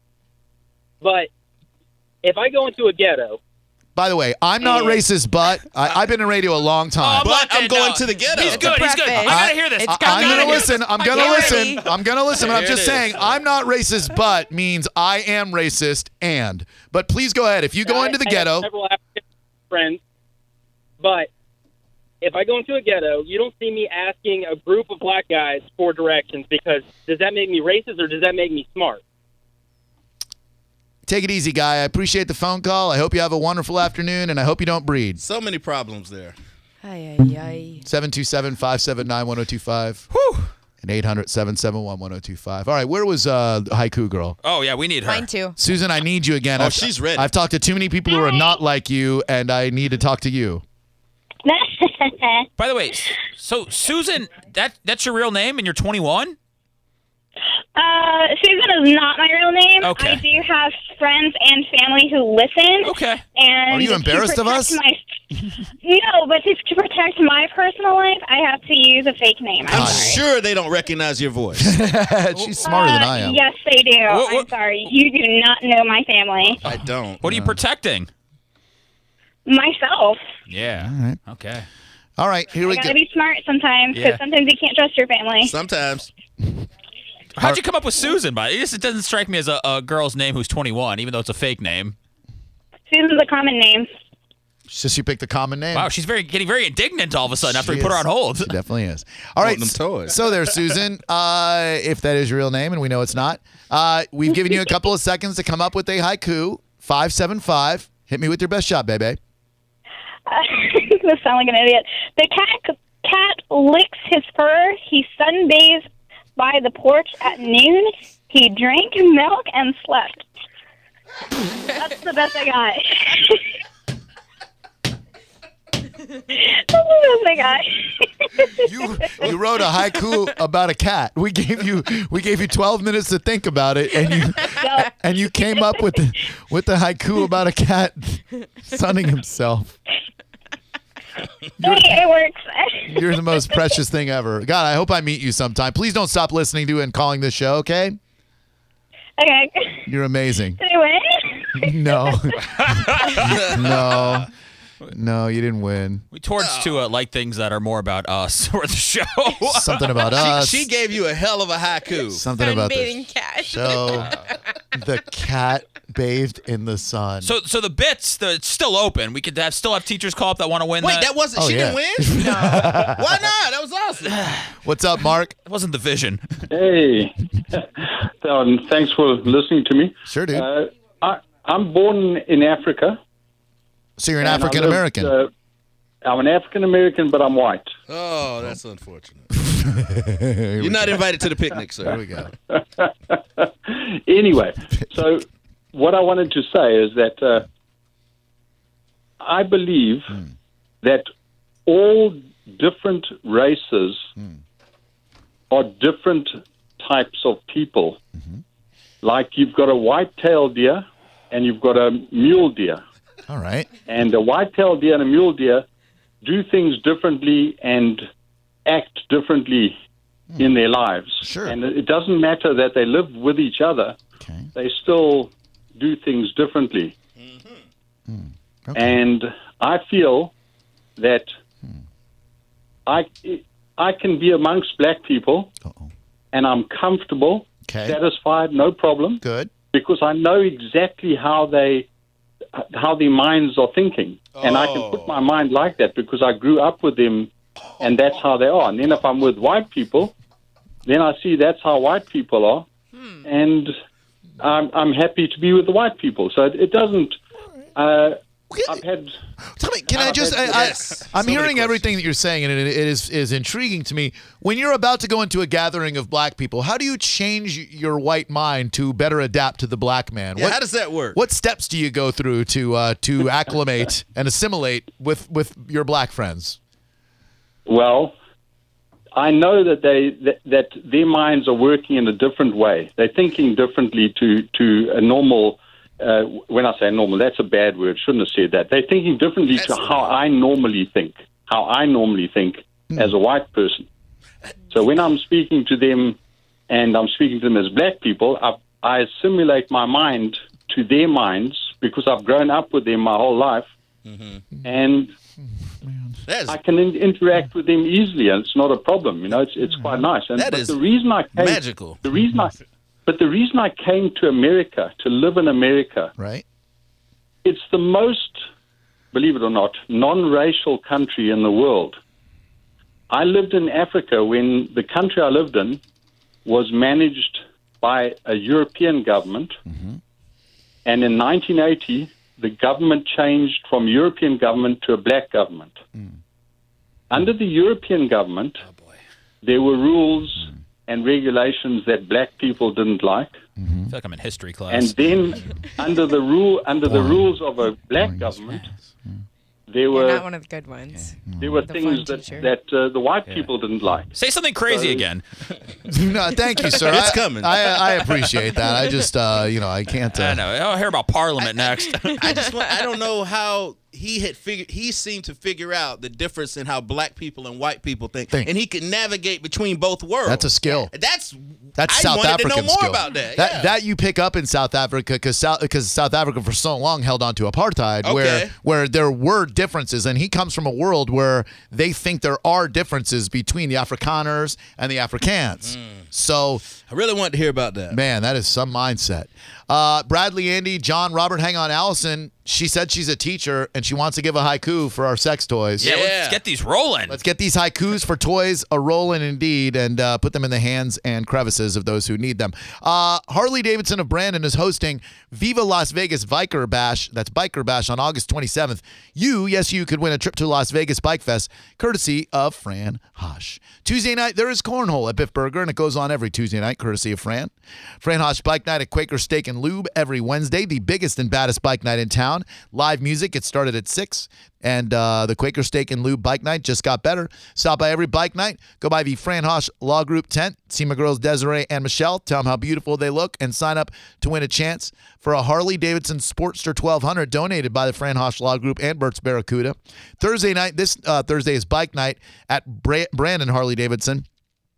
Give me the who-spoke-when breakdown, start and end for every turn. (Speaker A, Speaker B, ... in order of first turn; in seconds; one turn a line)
Speaker A: 1.0-1.3
Speaker A: 2.2-3.4
Speaker B: 4.0-7.3
Speaker C: 7.0-11.8
Speaker D: 7.2-8.7
Speaker E: 8.4-11.8
Speaker B: 9.2-18.7
Speaker D: 12.4-13.3
Speaker A: 17.8-20.0
Speaker A: 21.0-21.3
Speaker A: 22.2-29.0
Speaker B: 31.1-35.2
Speaker D: 35.2-36.4
Speaker E: 36.8-37.8
Speaker B: 37.8-40.1
Speaker C: 40.1-40.5
Speaker B: 40.8-44.4
Speaker C: 44.4-45.3
Speaker E: 45.0-45.6
Speaker B: 45.6-50.6
Speaker D: 46.6-47.3
Speaker F: 48.1-48.6
Speaker F: 51.5-52.5
Speaker C: 52.6-56.4
Speaker F: 57.8-65.0
Speaker C: 59.8-60.2
Speaker C: 62.8-63.2
Speaker B: 63.7-64.8
Speaker F: 65.8-70.2
Speaker B: 69.7-70.2
Speaker D: 69.7-71.7
Speaker B: 71.6-73.4
Speaker C: 72.3-72.6
Speaker F: 72.6-76.6
Speaker C: 74.1-74.5
Speaker D: 76.6-77.2
Speaker C: 77.2-78.1
Speaker B: 77.3-77.6
Speaker F: 79.5-80.2
Speaker C: 80.5-81.7
Speaker B: 80.8-81.2
Speaker B: 82.2-83.0
Speaker F: 82.7-85.5
Speaker C: 83.9-84.2
Speaker D: 85.4-86.1
Speaker C: 87.4-92.0
Speaker F: 92.9-93.9
Speaker B: 94.7-95.9
Speaker C: 95.7-98.5
Speaker B: 97.4-109.2
Speaker D: 99.4-100.2
Speaker F: 110.3-115.9
Speaker F: 116.4-120.3
Speaker F: 121.7-123.4
Speaker F: 126.3-129.2
Speaker B: 128.6-139.8
Speaker F: 134.6-134.9
Speaker B: 141.6-142.0
Speaker F: 141.6-143.4
Speaker B: 142.9-148.0
Speaker F: 149.2-149.9
Speaker B: 149.9-150.6
Speaker F: 150.6-152.3
Speaker B: 151.5-154.3
Speaker C: 152.6-153.4
Speaker D: 153.2-153.6
Speaker B: 154.9-156.1
Speaker C: 156.1-159.8
Speaker D: 156.4-156.8
Speaker B: 159.5-160.7
Speaker D: 160.1-162.3
Speaker B: 162.1-164.1
Speaker E: 162.3-164.1
Speaker B: 164.7-167.3
Speaker C: 167.2-171.1
Speaker D: 170.8-174.2
Speaker B: 171.3-173.2
Speaker E: 172.2-172.7
Speaker C: 174.1-174.6
Speaker B: 174.6-175.3
Speaker C: 175.4-176.4
Speaker G: 176.5-183.0
Speaker B: 180.1-180.5
Speaker B: 184.0-185.1
Speaker G: 184.2-185.3
Speaker G: 186.0-187.7
Speaker D: 187.9-189.6
Speaker B: 189.5-191.1
Speaker D: 190.6-192.0
Speaker B: 191.8-192.3
Speaker G: 192.5-197.5
Speaker G: 199.2-200.2
Speaker G: 200.8-201.1
Speaker G: 201.7-204.1
Speaker G: 205.5-208.0
Speaker B: 208.2-208.4
Speaker G: 209.0-212.8
Speaker B: 213.3-213.7
Speaker G: 213.9-215.7
Speaker G: 216.2-218.1
Speaker G: 218.6-219.8
Speaker G: 220.4-224.0
Speaker B: 221.2-221.6
Speaker B: 224.2-224.5
Speaker G: 224.6-226.9
Speaker D: 227.2-227.6
Speaker B: 228.1-229.0
Speaker G: 228.8-230.3
Speaker G: 231.0-231.3
Speaker G: 232.9-235.5
Speaker B: 235.6-235.9
Speaker G: 236.3-241.9
Speaker B: 237.7-238.0
Speaker B: 239.2-239.5
Speaker G: 242.6-250.1
Speaker D: 244.3-245.2
Speaker G: 250.8-252.7
Speaker E: 252.9-253.2
Speaker G: 253.2-253.7
Speaker G: 254.4-257.2
Speaker G: 257.8-259.1
Speaker B: 259.6-270.6
Speaker D: 259.9-261.8
Speaker G: 260.1-260.5
Speaker D: 270.4-271.2
Speaker B: 271.1-276.6
Speaker G: 277.6-278.1
Speaker G: 279.1-293.9
Speaker D: 289.5-290.1
Speaker G: 294.7-296.2
Speaker G: 296.7-303.7
Speaker D: 304.1-304.4
Speaker G: 304.6-305.1
Speaker B: 305.8-306.2
Speaker D: 306.3-306.6
Speaker G: 306.5-312.6
Speaker B: 309.8-310.0
Speaker D: 310.4-310.8
Speaker D: 311.3-312.0
Speaker G: 313.1-316.1
Speaker B: 316.2-316.4
Speaker G: 317.4-318.4
Speaker G: 319.1-322.0
Speaker G: 323.1-325.8
Speaker G: 326.4-329.6
Speaker B: 329.6-330.0
Speaker G: 330.9-335.8
Speaker G: 337.1-338.6
Speaker G: 339.4-343.4
Speaker B: 343.6-343.9
Speaker C: 343.9-345.1
Speaker G: 344.7-348.7
Speaker B: 346.9-347.4
Speaker B: 347.9-349.2
Speaker G: 349.7-350.3
Speaker E: 349.9-352.5
Speaker B: 351.3-351.7
Speaker G: 351.4-354.1
Speaker C: 354.1-355.2
Speaker G: 354.6-355.1
Speaker B: 355.9-360.4
Speaker D: 356.9-358.5
Speaker C: 360.1-362.3
Speaker E: 361.9-362.8
Speaker D: 362.0-373.7
Speaker B: 370.3-370.9
Speaker B: 371.8-386.6
Speaker D: 378.0-378.5
Speaker D: 386.8-388.0
Speaker B: 387.9-395.9
Speaker D: 395.8-396.4
Speaker C: 395.8-397.2
Speaker B: 397.1-444.3